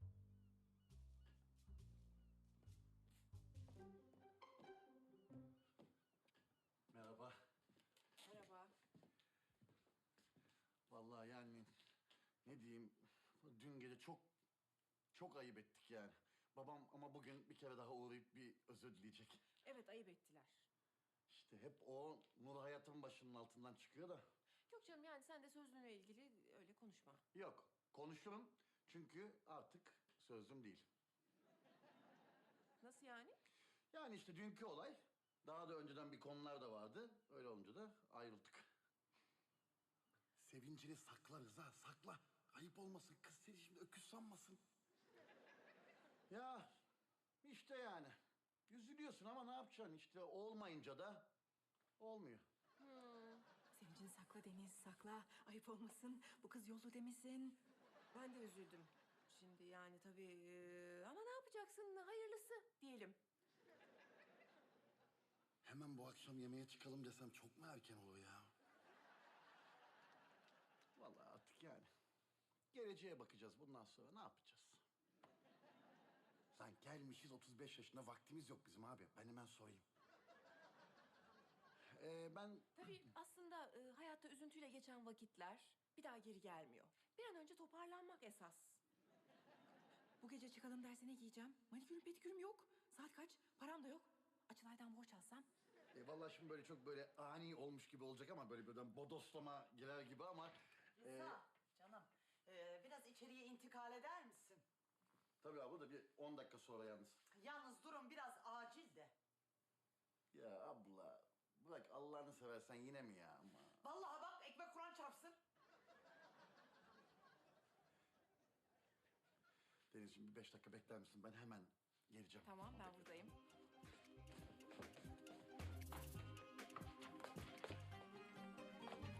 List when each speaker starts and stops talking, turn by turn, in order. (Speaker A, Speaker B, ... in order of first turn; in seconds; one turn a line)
Speaker A: 6.9-7.3
Speaker B: 8.2-8.7
Speaker A: 10.9-11.7
Speaker A: 12.4-14.3
Speaker A: 15.1-19.5
Speaker B: 19.6-20.7
Speaker A: 21.3-24.2
Speaker B: 24.7-27.2
Speaker A: 27.3-30.9
Speaker B: 32.8-33.4
Speaker A: 33.9-38.7
Speaker A: 40.4-44.6
Speaker A: 46.3-46.8
Speaker A: 47.4-48.1
Speaker A: 48.7-51.3
Speaker A: 52.0-52.5
Speaker B: 52.8-53.5
Speaker C: 53.7-57.6
Speaker B: 58.1-63.2
Speaker A: 65.6-68.5
Speaker A: 71.0-71.9
Speaker A: 72.7-74.8
Speaker A: 76.5-79.8
Speaker A: 81.9-82.9
Speaker B: 82.8-88.8
Speaker C: 90.2-95.5
Speaker A: 95.9-101.4
Speaker D: 101.0-104.6
Speaker A: 105.4-107.2
Speaker D: 107.3-109.1
Speaker A: 110.3-113.8
Speaker D: 113.8-115.4
Speaker A: 119.9-123.1
Speaker B: 122.4-123.3